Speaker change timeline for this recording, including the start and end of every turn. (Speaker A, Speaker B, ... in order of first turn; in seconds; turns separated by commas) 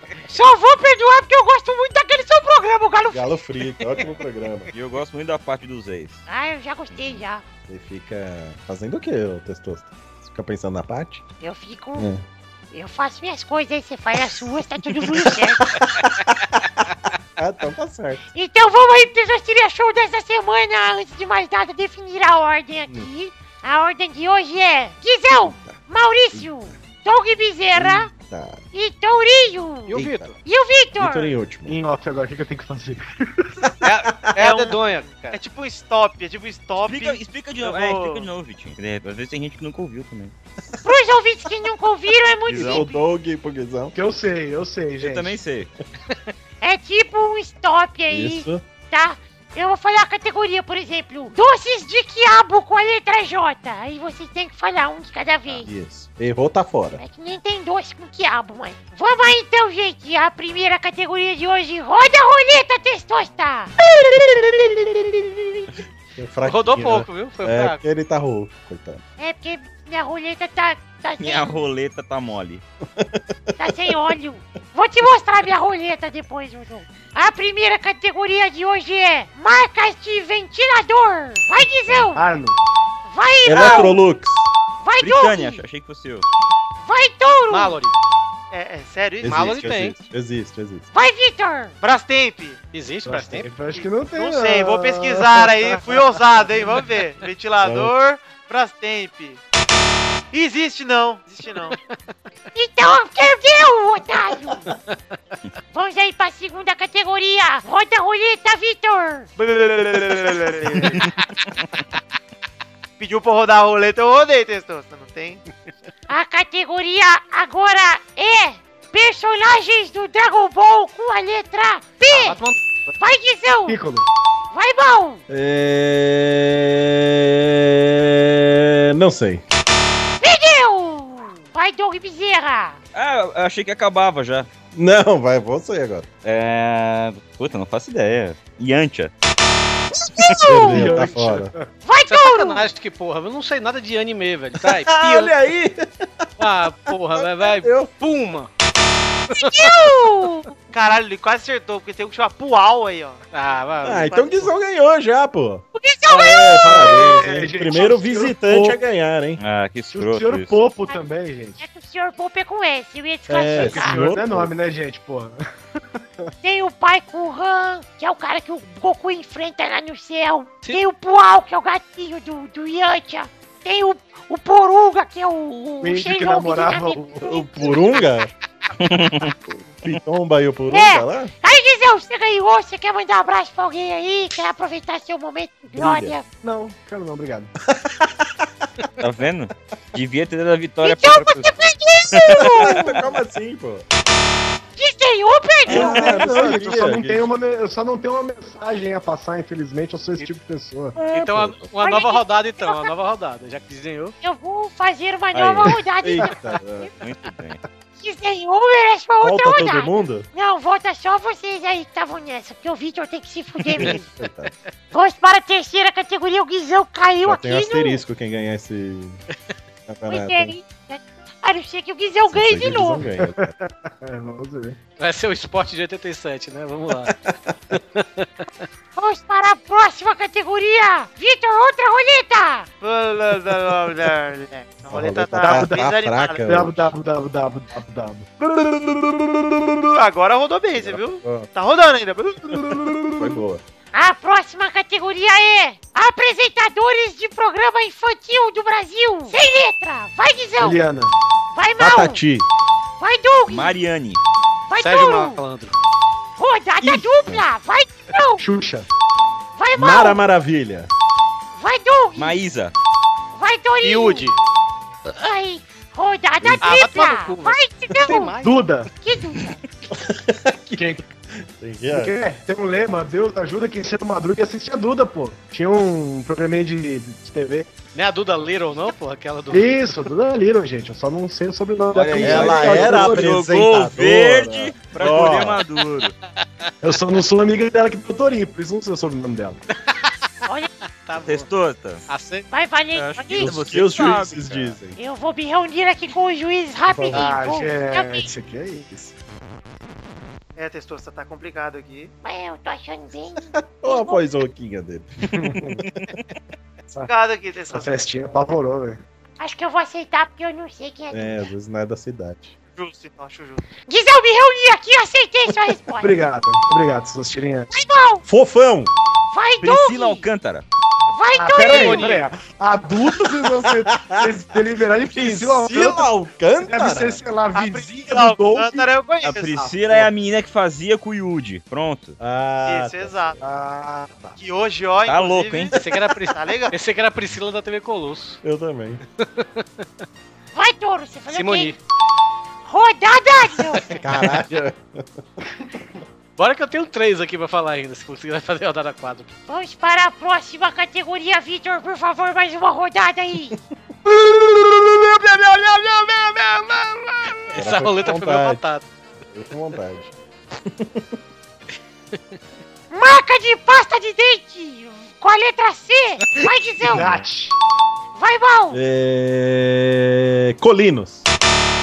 Speaker A: 0.3-3.4, Speaker B: 3.1-4.7, Speaker C: 4.7-6.2, Speaker A: 6.3-7.4, Speaker B: 7.7-11.2, Speaker A: 11.4-12.1, Speaker B: 12.0-12.2, Speaker A: 12.7-15.8, Speaker B: 15.1-16.4, Speaker B: 17.4-18.2, Speaker A: 18.3-28.1, Speaker B: 25.4-25.8, Speaker B: 27.8-28.6, Speaker A: 28.7-31.4, Speaker D: 29.9-30.3, Speaker B: 29.9-30.4, Speaker B: 30.9-31.8, Speaker E: 31.7-33.5, Speaker D: 33.8-35.4, Speaker F: 34.4-34.8, Speaker F: 35.3-38.3, Speaker C: 36.9-40.3, Speaker A: 40.8-43.0, Speaker C: 42.5-42.9, Speaker B: 42.5-44.0, Speaker E: 44.0-45.4, Speaker C: 45.0-45.7, Speaker A: 46.6-55.7, Speaker B: 48.1-48.6, Speaker B: 55.5-57.0, Speaker A: 57.0-63.7, Speaker B: 63.9-65.2, Speaker B: 66.2-69.0, Speaker D: 66.4-67.8, Speaker A: 69.2-71.6, Speaker C: 71.2-72.6, Speaker B: 73.0-73.8, Speaker A: 73.6-82.2, Speaker E: 82.2-82.6, Speaker A: 83.1-84.0, Speaker B: 83.5-84.5, Speaker A: 84.8-85.6, Speaker C: 85.0-86.3, Speaker A: 86.8-87.8, Speaker D: 87.5-88.0, Speaker F: 88.5-89.6, Speaker B: 89.2-90.9, Speaker D: 89.2-90.0, Speaker A: 90.9-91.8, Speaker F: 91.8-92.6, Speaker D: 92.7-93.5, Speaker E: 93.1-95.8, Speaker F: 94.2-99.4, Speaker B: 97.6-97.9, Speaker F: 100.3-101.8, Speaker A: 102.5-104.7, Speaker D: 104.7-104.9, Speaker A: 105.7-109.3, Speaker F: 109.4-111.2, Speaker F: 113.0-115.4, Speaker A: 116.1-122.4, Speaker D: 122.1-122.9, Speaker A: 123.0-123.8, Speaker E: 123.7-124.1, Speaker A: 124.5-125.2, Speaker B: 125.3-129.4, Speaker A: 130.2-132.8, Speaker C: 132.9-134.5, Speaker B: 134.7-136.1, Speaker C: 136.2-139.1, Speaker A: 140.2-141.1, Speaker B: 140.2-141.5, Speaker E: 140.6-141.7, Speaker A: 141.8-142.7, Speaker D: 142.1-145.3, Speaker B: 144.7-146.1, Speaker D: 146.4-148.5, Speaker B: 147.2-147.9, Speaker A: 149.4-150.5, Speaker D: 149.4-149.6, Speaker F: 150.7-153.2, Speaker D: 153.3-154.6, Speaker B: 153.8-159.4, Speaker A: 155.7-157.0, Speaker E: 156.6-158.8, Speaker C: 159.4-160.6, Speaker E: 159.9-161.6, Speaker A: 161.6-164.0, Speaker B: 163.3-164.5, Speaker E: 163.6-165.4, Speaker A: 166.4-177.3, Speaker E: 175.8-178.0, Speaker B: 177.2-178.3, Speaker C: 178.8-179.3, Speaker B: 179.8-181.3, Speaker A: 180.7-186.3, Speaker B: 185.8-186.2, Speaker E: 186.4-187.5, Speaker B: 187.7-188.3, Speaker C: 189.0-193.1, Speaker A: 190.8-193.1, Speaker B: 192.2-193.9, Speaker A: 194.8-196.4, Speaker B: 195.7-197.3, Speaker E: 195.7-200.9, Speaker B: 201.0-201.7, Speaker D: 201.1-204.2, Speaker A: 201.8-202.9, Speaker A: 204.2-206.9, Speaker C: 205.3-205.8, Speaker B: 206.0-206.9, Speaker C: 207.0-207.6, Speaker A: 208.0-214.1, Speaker B: 209.2-210.3, Speaker B: 213.7-214.5, Speaker D: 213.8-214.5, Speaker A: 214.9-218.0, Speaker B: 217.2-219.2, Speaker B: 219.9-220.6, Speaker A: 220.1-223.1, Speaker B: 222.3-223.5, Speaker E: 223.2-224.8, Speaker D: 225.0-227.2, Speaker B: 227.1-227.6, Speaker D: 227.7-228.7, Speaker A: 229.0-232.7, Speaker F: 232.8-236.6, Speaker B: 234.9-236.9, Speaker E: 235.4-235.9, Speaker E: 236.4-238.3, Speaker F: 238.4-238.7, Speaker B: 239.0-239.3, Speaker F: 239.6-243.4, Speaker B: 240.7-241.5, Speaker B: 243.2-243.6, Speaker A: 243.9-250.8, Speaker E: 250.6-251.1, Speaker A: 251.5-252.2, Speaker B: 251.8-252.5, Speaker A: 253.0-253.8, Speaker C: 253.5-254.2, Speaker A: 254.7-255.4, Speaker D: 254.8-255.7, Speaker A: 256.4-258.4, Speaker E: 258.4-258.9, Speaker A: 259.6-260.2, Speaker B: 259.7-260.9, Speaker A: 261.6-262.4, Speaker C: 262.2-262.7, Speaker A: 263.4-264.3, Speaker D: 263.8-264.4, Speaker A: 265.2-268.4, Speaker B: 266.4-266.7, Speaker D: 266.6-268.8, Speaker E: 268.4-268.9, Speaker A: 269.0-269.6, Speaker B: 269.9-272.1, Speaker E: 270.8-271.0, Speaker E: 271.9-277.7, Speaker D: 277.9-279.7, Speaker E: 279.5-283.5, Speaker B: 281.9-285.6, Speaker C: 282.1-286.1, Speaker E: 286.8-289.6, Speaker A: 290.4-290.7, Speaker D: 291.0-291.5, Speaker C: 291.3-292.1, Speaker D: 292.1-293.2, Speaker A: 292.5-293.6, Speaker C: 293.3-294.8, Speaker B: 293.4-295.0, Speaker A: 295.0-298.3, Speaker B: 296.9-297.4, Speaker E: 297.1-299.1, Speaker F: 300.6-302.1, Speaker A: 302.2-304.4, Speaker B: 303.5-306.0, Speaker E: 305.2-305.8, Speaker F: 307.1-307.9, Speaker E: 307.7-309.0, Speaker A: 309.4-311.4, Speaker B: 311.1-312.5, Speaker F: 312.7-313.6, Speaker A: 313.9-316.2, Speaker E: 316.0-317.7, Speaker A: 317.7-318.2, Speaker B: 318.3-318.9, Speaker A: 319.3-320.3, Speaker C: 319.6-320.6, Speaker A: 321.1-322.2, Speaker E: 321.4-326.1, Speaker D: 321.6-322.3, Speaker B: 323.9-324.3, Speaker B: 325.2-327.2, Speaker E: 326.6-328.9, Speaker F: 327.5-329.7, Speaker C: 329.2-332.2, Speaker E: 329.6-330.0, Speaker B: 332.2-333.3, Speaker F: 332.6-333.4, Speaker E: 333.4-334.4, Speaker F: 334.4-336.7, Speaker C: 335.1-335.8, Speaker D: 335.7-338.4, Speaker B: 338.4-339.0, Speaker D: 339.2-339.9, Speaker A: 340.5-341.8, Speaker D: 341.3-341.8, Speaker A: 342.6-344.0, Speaker D: 343.8-344.0, Speaker B: 344.0-345.0, Speaker D: 346.4-349.3, Speaker A: 349.5-353.6, Speaker F: 356.3-357.1, Speaker D: 357.4-358.9, Speaker B: 357.5-358.6, Speaker B: 359.3-360.1, Speaker B: 360.7-361.1, Speaker A: 362.9-367.2, Speaker B: 366.4-367.2, Speaker E: 366.9-367.6, Speaker A: 368.2-368.8, Speaker B: 368.7-371.3